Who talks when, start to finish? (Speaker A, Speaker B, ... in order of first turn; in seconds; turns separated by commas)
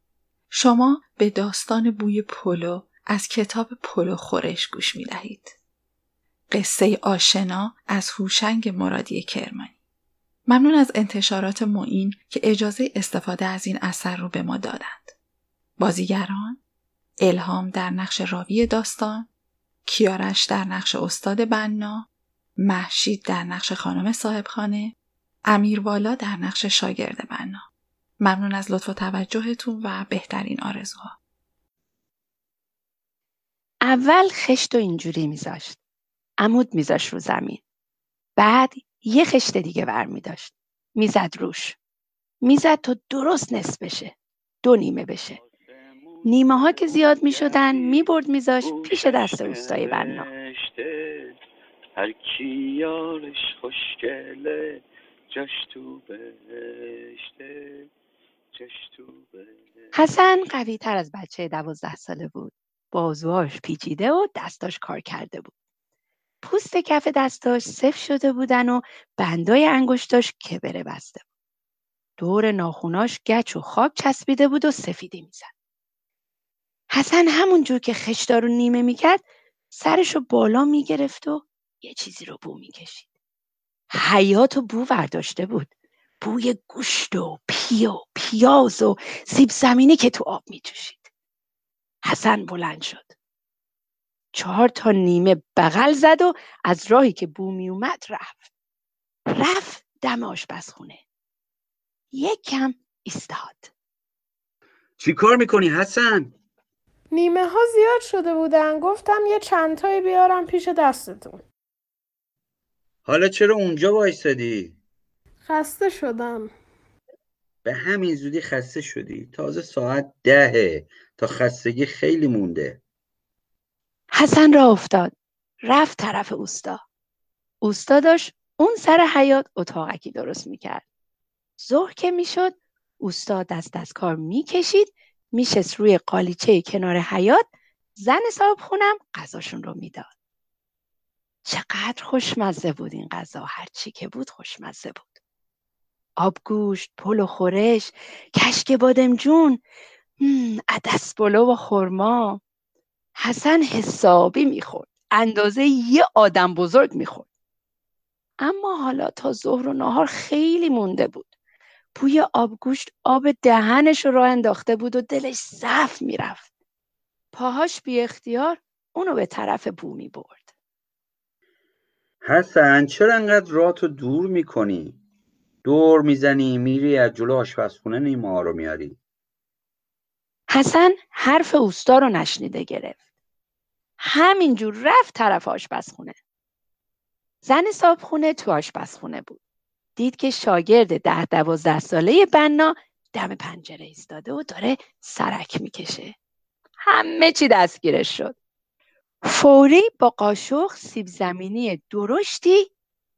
Speaker A: 0.5-5.5, Speaker A: 6.5-9.7, Speaker A: 10.5-15.2, Speaker A: 15.8-16.6, Speaker A: 17.2-19.3, Speaker A: 19.8-22.1, Speaker A: 22.6-24.9, Speaker A: 25.5-27.6, Speaker A: 28.2-31.2, Speaker B: 33.8-35.8, Speaker B: 36.4-37.6, Speaker B: 38.4-41.8, Speaker B: 42.4-45.4, Speaker B: 46.2-50.3, Speaker B: 59.9-65.5, Speaker B: 66.4-71.2, Speaker B: 72.2-75.5, Speaker B: 76.9-83.1, Speaker B: 83.9-91.1, Speaker B: 92.0-93.1, Speaker B: 94.3-98.5, Speaker B: 99.3-101.0, Speaker B: 102.1-103.7, Speaker C: 105.0-106.3, Speaker D: 107.1-111.4, Speaker C: 113.0-114.8, Speaker D: 115.4-116.5, Speaker C: 117.6-122.8, Speaker B: 124.1-125.1, Speaker B: 125.7-126.8, Speaker B: 127.6-130.8, Speaker B: 131.6-140.1, Speaker B: 141.5-145.2, Speaker B: 146.2-149.6, Speaker B: 150.2-152.4, Speaker B: 153.2-157.3, Speaker B: 158.4-161.3, Speaker B: 161.9-166.5, Speaker B: 167.3-170.4, Speaker C: 172.2-175.0, Speaker C: 175.7-179.0, Speaker B: 180.5-183.0, Speaker B: 184.0-186.2, Speaker B: 187.4-189.4, Speaker B: 190.0-196.2, Speaker B: 196.9-198.3, Speaker B: 199.2-202.7